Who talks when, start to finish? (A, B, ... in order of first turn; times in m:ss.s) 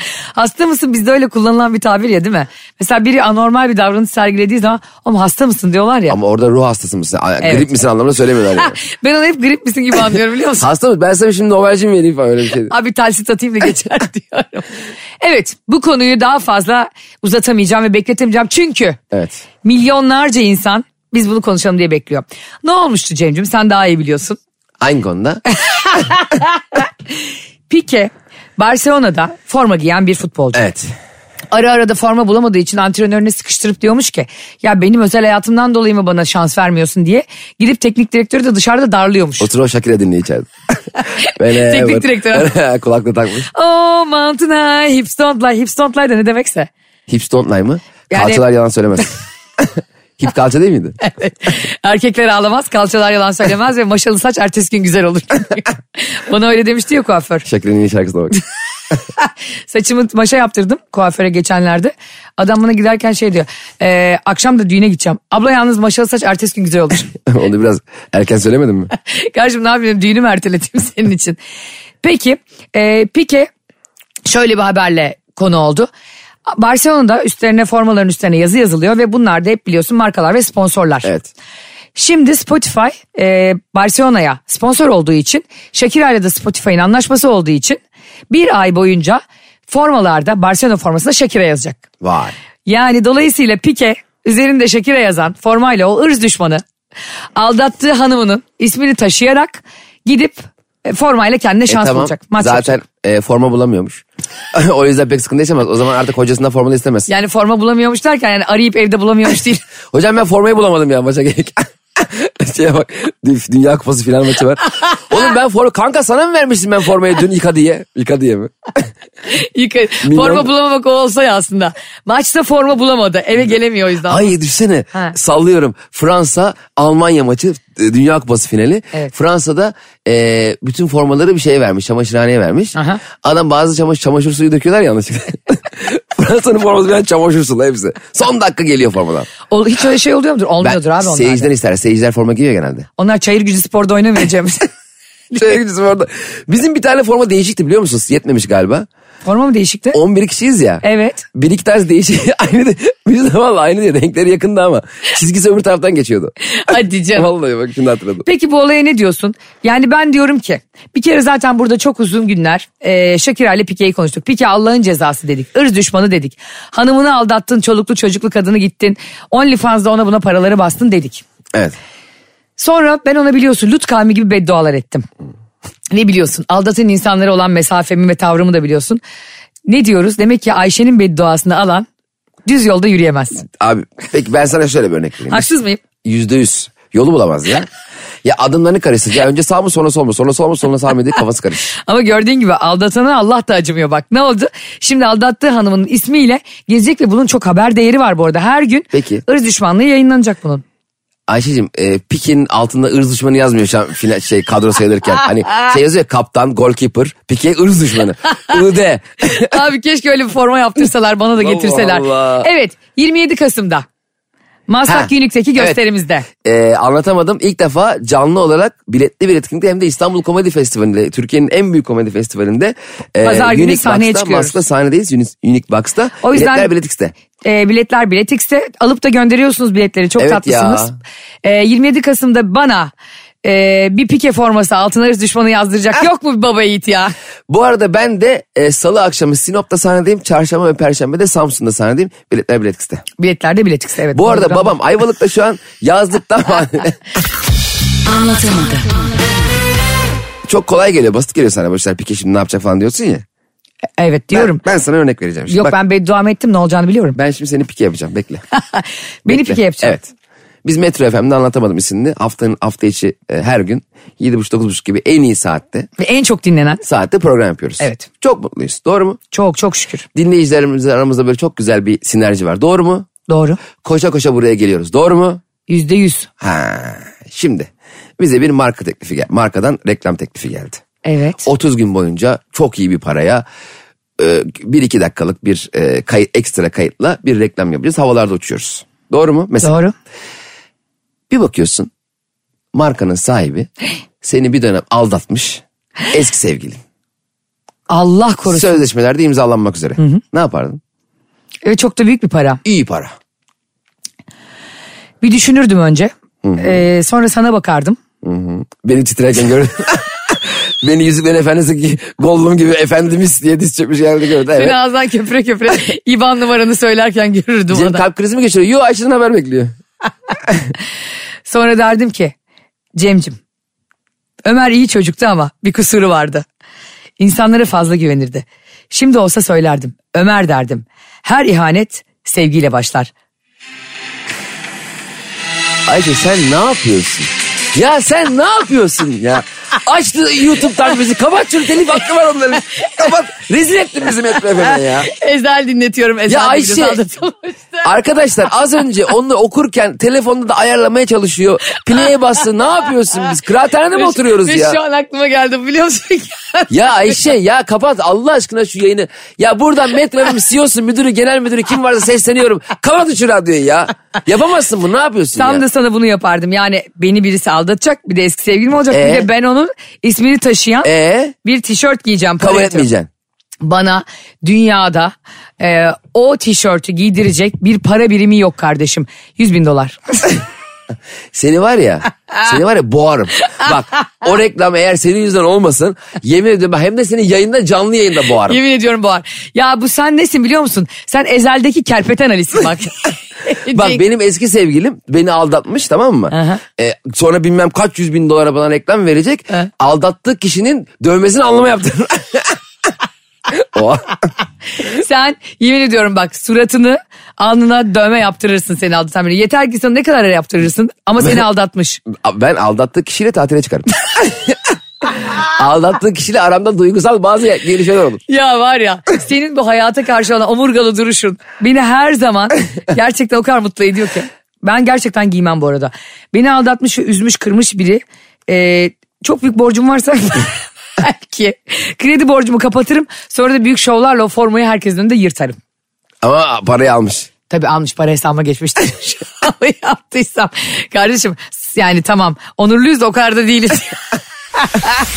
0:00.3-0:06.2 A
0:06.1-0:08.8 B
0:07.4-0:07.7 A
0:08.6-0:10.7 A
0:10.6-0:12.7 B
0:12.7-0:14.7 A
0:15.2-0:19.0 A
0:19.1-0:19.4 B
0:19.6-0:24.4 A
0:24.8-0:25.4 B
0:25.6-0:26.9 A
0:27.7-0:30.6 A
0:30.5-0:30.9 B
0:31.5-0:39.5 A
0:39.4-0:40.5 B
0:41.0-0:42.5 A
0:41.3-0:43.5 B
0:43.5-0:46.7 A
0:47.1-0:51.0 B
0:48.1-0:48.4 A
0:51.0-0:57.4 A
0:57.4-0:58.4 B
0:59.2-1:07.1 A
1:07.2-1:08.9 B
1:09.0-1:11.4 A
1:12.0-1:13.5 A
1:14.2-1:15.9 A
1:16.5-1:21.1 A
1:21.0-1:21.3 B
1:21.9-1:27.8 A
1:28.3-1:31.8 A
1:32.0-1:32.3 B
1:32.6-1:36.6 A
1:37.4-1:42.7 A
1:41.7-1:47.1 B
1:47.1-1:49.6 A
1:49.9-1:58.8 B
1:59.3-2:04.3 A
2:00.0-2:00.5 B
2:04.1-2:19.3 B
2:12.7-2:13.0 A
2:19.5-2:21.5 A
2:20.6-2:22.9 B
2:23.0-2:24.7 A
2:25.3-2:28.9 B
2:29.2-2:30.0 A
2:29.9-2:30.8 B
2:30.8-2:31.2 A
2:31.3-2:38.2 B
2:36.5-2:37.3 A
2:38.2-2:51.2 A
2:52.6-2:55.0 A
2:55.9-2:59.0 A
2:59.7-3:01.9 A
3:02.4-3:03.4 A
3:03.4-3:05.5 B
3:05.3-3:05.8 A
3:06.0-3:07.7 B
3:08.2-3:11.7 B
3:11.7-3:20.6 A
3:18.9-3:19.2 B
3:21.3-3:29.6 B
3:29.2-3:33.8 A
3:31.4-3:32.5 B
3:34.7-3:36.3 A
3:34.9-3:35.8 B
3:36.4-3:47.1 B
3:43.2-3:44.6 A
3:46.2-3:46.7 A
3:47.4-3:50.9 A
3:50.2-3:50.9 B
3:51.4-3:52.9 A
3:53.4-3:57.1 A
3:57.5-4:03.0 B
4:03.2-4:04.7 A
4:04.1-4:07.0 B
4:08.1-4:09.1 A
4:10.4-4:13.2 B
4:14.0-4:14.6 A
4:14.3-4:15.7 B
4:15.5-4:17.2 A
4:17.2-4:18.4 B
4:18.5-4:20.0 A
4:19.3-4:20.1 B
4:20.6-4:25.9 B
4:26.0-4:26.8 A
4:26.8-4:29.2 B
4:27.8-4:28.1 A
4:29.3-4:30.0 A
4:30.1-4:33.1 B
4:33.3-4:33.6 A
4:33.8-4:35.4 B
4:35.7-4:36.3 A
4:36.4-4:40.8 B
4:41.0-4:41.4 A
4:41.4-4:43.4 B
4:44.2-4:49.7 B
4:49.6-4:49.9 A
4:51.3-4:51.9 B
4:52.7-4:53.7 B
4:54.2-4:56.8 B
4:57.9-4:58.8 A
4:58.5-5:00.8 B
5:01.6-5:02.6 A
5:02.6-5:03.1 B
5:05.2-5:08.0 A
5:06.4-5:06.8 B
5:08.2-5:14.8 B
5:14.5-5:18.0 A
5:17.7-5:19.7 B
5:21.4-5:22.3 A
5:23.0-5:23.4 A
5:24.4-5:26.4 A
5:27.2-5:33.1 A
5:35.8-5:45.1 B
5:44.6-5:47.9 A
5:46.3-5:47.0 B
5:47.8-5:54.8 B
5:53.9-5:57.1 A
5:56.7-6:05.6 B
6:05.3-6:10.9 A
6:08.9-6:09.3 B
6:10.8-6:11.3 B
6:11.4-6:12.9 A
6:12.4-6:13.1 B
6:13.6-6:20.3 A
6:21.3-6:28.6 B
6:28.4-6:34.0 A
6:33.7-6:42.6 B
6:36.3-6:36.6 A
6:43.5-6:44.2 B
6:44.8-6:52.0 A
6:52.1-6:58.2 B
6:58.3-7:15.6 A
7:16.2-7:17.3 B
7:17.5-7:24.0 A